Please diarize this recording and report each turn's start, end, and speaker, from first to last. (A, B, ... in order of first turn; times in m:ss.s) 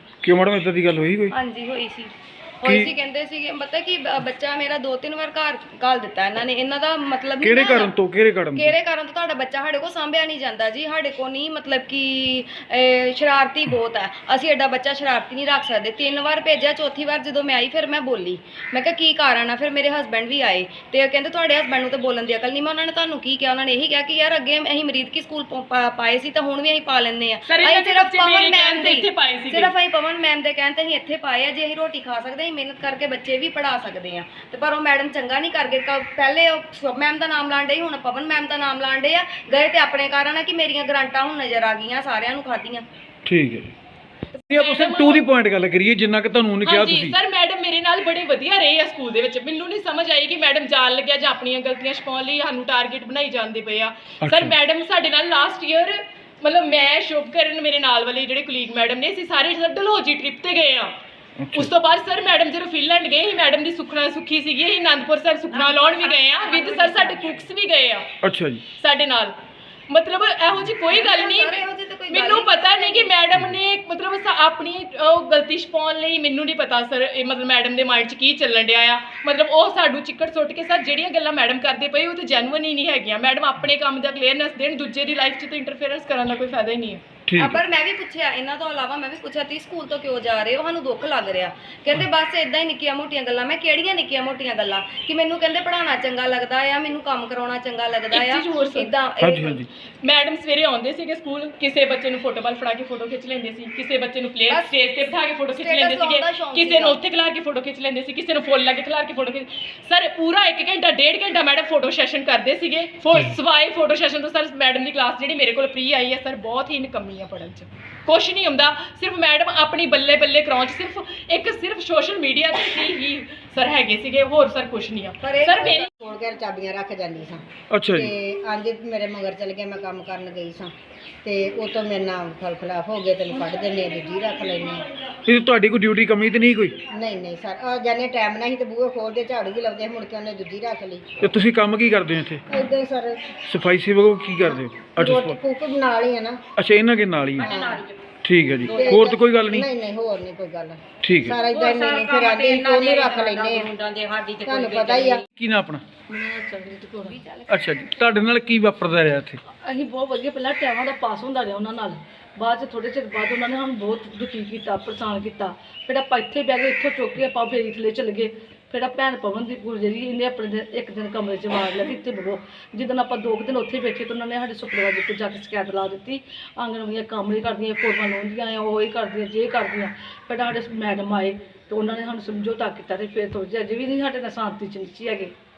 0:00.2-0:01.3 A
0:01.3-0:07.9 B
0:02.6-0:02.9 A
0:07.4-0:08.7 A
0:08.5-0:42.8 B
0:27.4-0:29.7 C
0:43.2-0:43.7 A
0:44.4-0:45.2 C
0:44.5-0:47.2 A
0:46.6-1:01.0 C
0:54.2-0:54.5 A
1:01.4-1:01.7 A
1:01.5-1:08.1 C
1:06.2-1:07.3 B
1:08.2-1:08.6 A
1:08.8-1:09.3 C
1:09.9-1:27.0 C
1:10.9-1:13.1 B
1:27.3-1:27.6 A
1:27.4-1:39.6 B
1:38.1-1:38.9 C
1:39.2-1:39.7 A
1:40.0-2:05.9 C
1:44.5-1:44.7 B
1:45.5-1:47.0 B
2:05.2-2:05.9 B
2:06.0-2:10.7 D
2:07.7-2:08.1 A
2:11.2-2:14.9 D
2:15.2-2:16.8 A
2:16.9-2:21.1 D
2:21.2-2:22.5 A
2:22.5-2:23.3 D
2:23.4-2:25.4 A
2:24.9-2:26.4 D
2:26.6-2:27.5 A
2:27.4-2:28.0 E
2:27.4-2:27.8 D
2:28.2-2:29.7 A
2:28.6-2:29.0 E
2:28.6-2:33.7 D
2:31.0-2:31.4 A
2:31.5-2:35.2 E
2:34.4-2:35.2 D
2:35.3-2:35.8 A
2:36.1-2:37.4 F
2:37.5-2:39.4 A
2:39.6-3:05.3 F